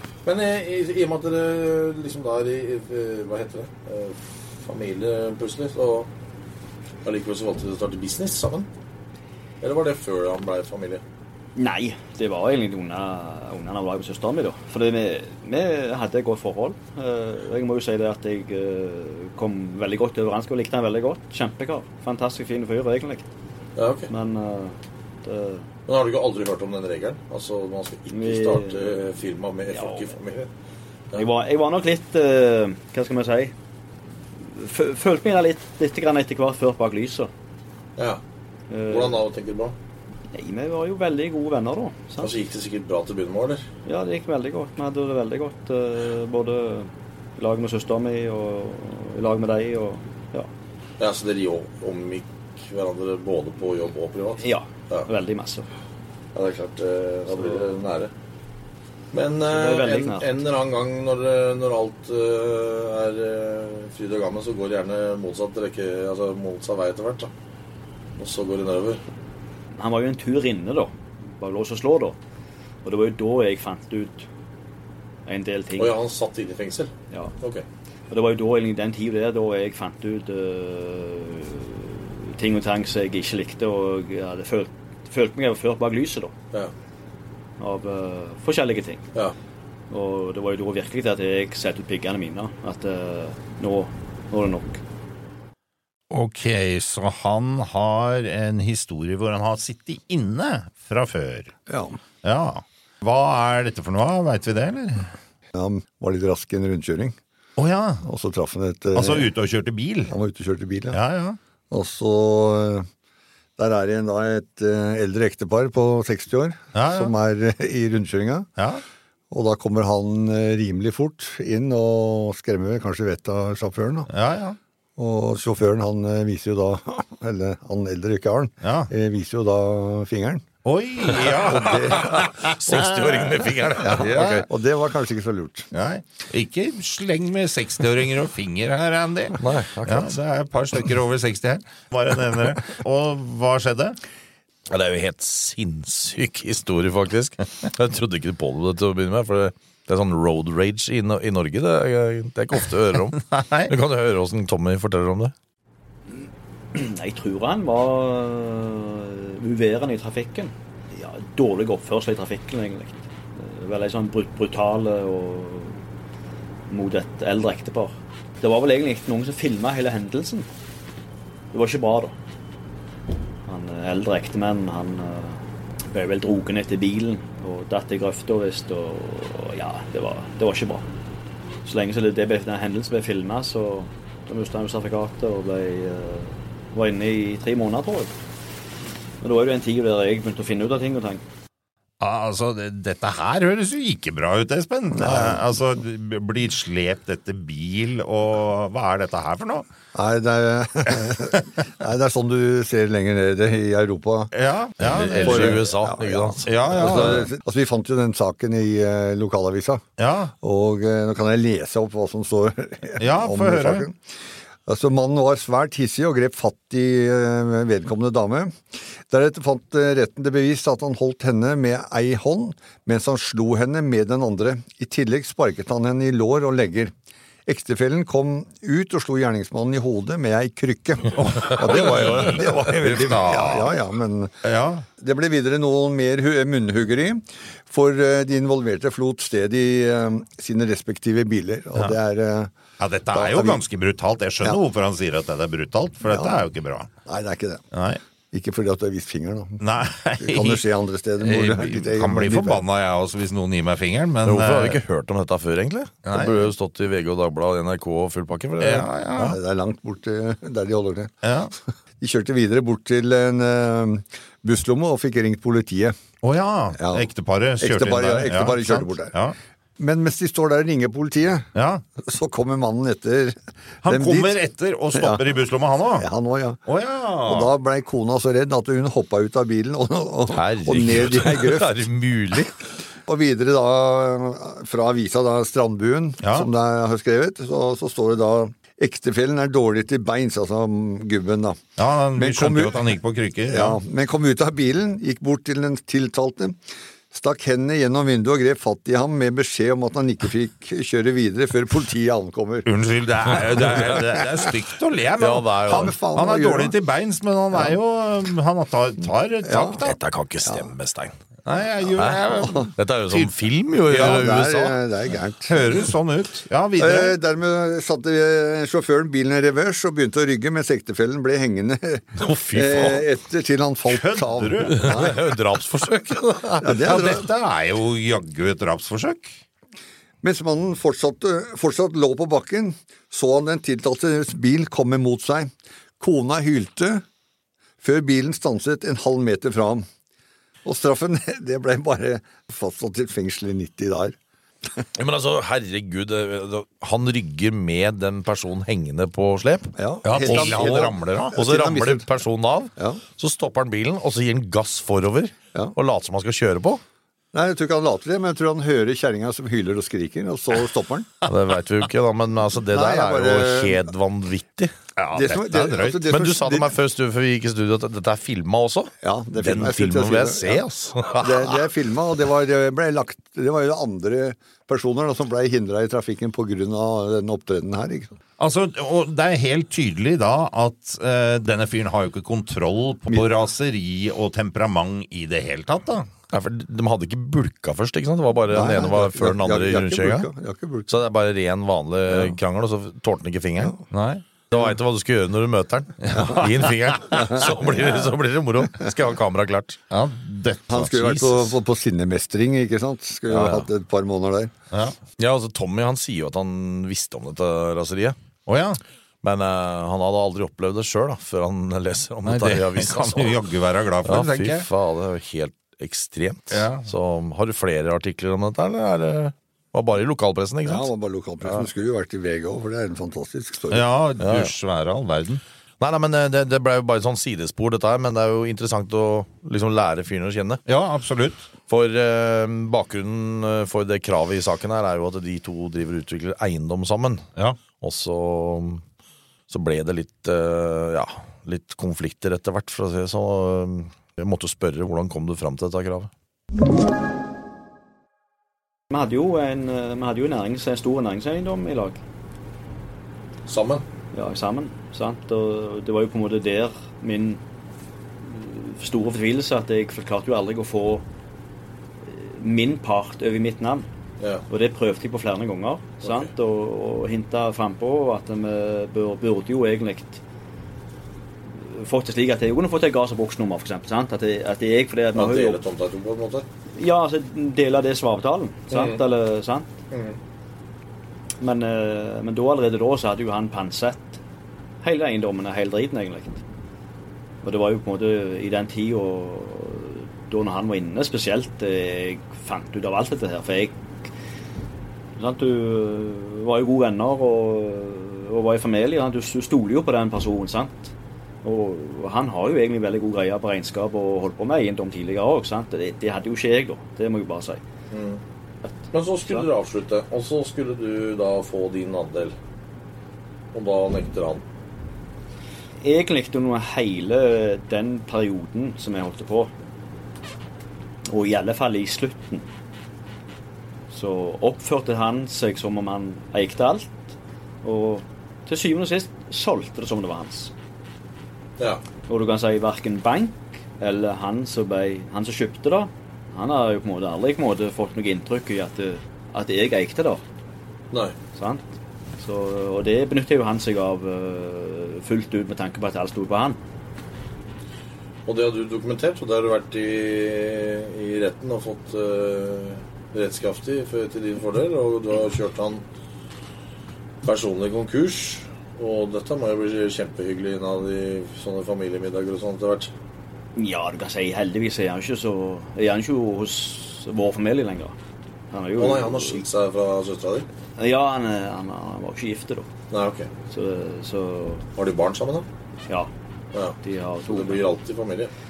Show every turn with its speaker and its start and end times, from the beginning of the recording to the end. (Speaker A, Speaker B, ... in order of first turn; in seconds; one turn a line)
Speaker A: 0.2-6.1
Speaker A: 7.0-8.7
Speaker A: 9.6-11.0
Speaker B: 11.6-23.3
Speaker A: 23.8-24.1
Speaker B: 24.1-25.7
Speaker A: 25.9-30.5
Speaker B: 28.1-29.0
Speaker B: 29.7-30.1
Speaker B: 31.1-33.5
Speaker B: 34.4-37.3
Speaker B: 38.7-39.2
Speaker A: 38.9-39.7
Speaker B: 40.3-42.3
Speaker A: 42.2-43.6
Speaker B: 43.8-50.5
Speaker A: 51.0-55.1
Speaker B: 54.4-55.7
Speaker A: 56.3-58.1
Speaker B: 57.3-57.7
Speaker A: 59.1-67.3
Speaker B: 59.5-60.3
Speaker A: 68.2-69.0
Speaker B: 69.8-72.2
Speaker B: 72.8-74.3
Speaker B: 75.2-76.0
Speaker A: 75.8-77.6
Speaker B: 78.1-86.3
Speaker B: 87.6-89.0
Speaker B: 89.9-94.8
Speaker C: 96.1-101.5
Speaker D: 101.7-102.0
Speaker C: 102.2-105.1
Speaker D: 105.5-107.2
Speaker C: 107.6-108.0
Speaker D: 108.0-109.3
Speaker C: 108.9-110.1
Speaker D: 110.1-111.0
Speaker C: 110.9-111.4
Speaker D: 111.7-112.9
Speaker D: 113.6-118.5
Speaker C: 116.7-117.1
Speaker C: 118.6-118.8
Speaker D: 119.3-124.1
Speaker C: 124.1-124.6
Speaker D: 125.0-130.4
Speaker C: 128.6-128.9
Speaker C: 130.6-134.4
Speaker D: 131.1-132.3
Speaker E: 131.8-134.4
Speaker D: 133.8-135.7
Speaker C: 135.7-144.0
Speaker E: 139.4-140.2
Speaker E: 144.7-155.3
Speaker C: 153.2-153.7
Speaker B: 156.7-165.8
Speaker B: 166.7-170.5
Speaker B: 171.5-172.2
Speaker B: 173.5-180.8
Speaker B: 181.6-188.1
Speaker B: 189.2-191.2
Speaker C: 192.0-199.7
Speaker D: 194.9-195.4
Speaker D: 199.9-204.3
Speaker C: 204.3-205.7
Speaker E: 204.8-207.3
Speaker D: 204.9-209.8
Speaker C: 206.4-207.3
Speaker C: 210.0-210.3
Speaker D: 210.4-214.0
Speaker C: 213.0-213.8
Speaker D: 214.7-226.9
Speaker D: 227.4-234.3
Speaker C: 231.1-233.8
Speaker C: 234.4-234.8
Speaker D: 235.0-242.5
Speaker C: 242.8-246.9
Speaker D: 243.1-243.6
Speaker D: 246.0-246.4
Speaker D: 247.1-247.6
Speaker C: 247.7-248.0
Speaker D: 248.3-249.6
Speaker C: 249.6-250.6
Speaker D: 250.2-252.6
Speaker C: 251.2-254.8
Speaker E: 254.2-259.3
Speaker C: 256.1-256.5
Speaker C: 258.6-259.4
Speaker D: 259.2-261.1
Speaker C: 261.2-261.5
Speaker D: 262.0-265.9
Speaker C: 266.2-269.4
Speaker D: 266.8-267.1
Speaker D: 267.6-269.1
Speaker D: 269.8-271.5
Speaker C: 271.5-271.8
Speaker D: 272.0-274.3
Speaker C: 273.8-276.1
Speaker D: 274.9-275.2
Speaker D: 276.0-276.6
Speaker C: 276.7-277.5
Speaker D: 277.2-281.8
Speaker E: 280.3-282.6
Speaker D: 283.1-291.6
Speaker C: 286.2-286.5
Speaker C: 291.8-293.8
Speaker D: 292.1-293.0
Speaker D: 293.5-296.6
Speaker D: 297.1-302.7
Speaker C: 302.6-310.0
Speaker D: 303.6-304.0
Speaker E: 305.2-305.9
Speaker D: 305.7-306.7
Speaker D: 309.4-309.8
Speaker E: 309.7-311.1
Speaker C: 311.4-313.3
Speaker E: 312.0-314.8
Speaker D: 313.9-315.9
Speaker C: 313.9-314.3
Speaker C: 315.5-317.2
Speaker D: 316.8-325.3
Speaker E: 322.2-323.1
Speaker C: 323.9-325.1
Speaker E: 324.7-326.6
Speaker D: 326.4-327.3
Speaker C: 326.6-329.3
Speaker D: 330.2-337.0
Speaker D: 337.8-339.9
Speaker D: 340.6-344.1
Speaker E: 344.9-356.8
Speaker D: 349.8-352.1
Speaker C: 350.0-351.4
Speaker D: 357.3-361.1
Speaker E: 361.2-364.7
Speaker D: 362.7-363.9
Speaker C: 365.0-366.1
Speaker D: 365.1-366.7
Speaker E: 366.0-371.6
Speaker D: 369.0-378.1
Speaker C: 370.5-370.9
Speaker C: 378.4-386.1
Speaker E: 386.3-390.3
Speaker D: 388.5-391.0
Speaker E: 390.9-393.8
Speaker C: 393.9-394.2
Speaker E: 394.5-399.8
Speaker C: 396.0-397.3
Speaker D: 396.1-396.4
Speaker D: 397.1-398.0
Speaker C: 399.9-401.5
Speaker D: 400.7-404.5
Speaker E: 403.3-403.7
Speaker E: 405.2-408.2
Speaker C: 408.4-408.8
Speaker E: 409.2-413.4
Speaker C: 412.2-414.7
Speaker E: 414.0-420.9
Speaker C: 416.5-416.9
Speaker D: 420.6-423.9
Speaker C: 423.7-425.4
Speaker E: 424.2-424.5
Speaker E: 425.8-430.6
Speaker C: 430.7-431.4
Speaker E: 431.7-437.3
Speaker E: 437.8-438.8
Speaker E: 439.5-446.1
Speaker B: 448.9-452.0
Speaker A: 453.4-453.8
Speaker B: 454.1-457.4
Speaker B: 458.2-461.0
Speaker B: 462.0-463.9
Speaker B: 464.5-470.2
Speaker A: 466.0-466.3
Speaker B: 471.5-475.6
Speaker A: 475.1-476.4
Speaker B: 476.8-479.7
Speaker A: 478.7-479.0
Speaker A: 479.9-480.2
Speaker B: 481.4-484.2
Speaker B: 484.8-486.4
Speaker B: 487.4-494.1
Speaker B: 495.1-500.9
Speaker B: 501.4-507.6
Speaker A: 507.9-508.2
Speaker A: 508.9-512.3
Speaker A: 513.5-514.4
Speaker B: 515.8-519.5
Speaker B: 521.1-522.5
Speaker B: 523.9-530.5
Speaker B: 532.0-540.2
Speaker A: 540.9-541.2
Speaker B: 541.3-546.6
Speaker A: 548.2-555.8
Speaker A: 557.2-562.9
Speaker B: 563.5-568.0
Speaker B: 568.5-569.4
Speaker A: 568.8-570.5
Speaker B: 570.8-572.7
Speaker A: 572.9-573.3
Speaker B: 573.5-574.6
Speaker A: 574.7-575.5
Speaker A: 576.5-578.3
Speaker B: 576.8-577.6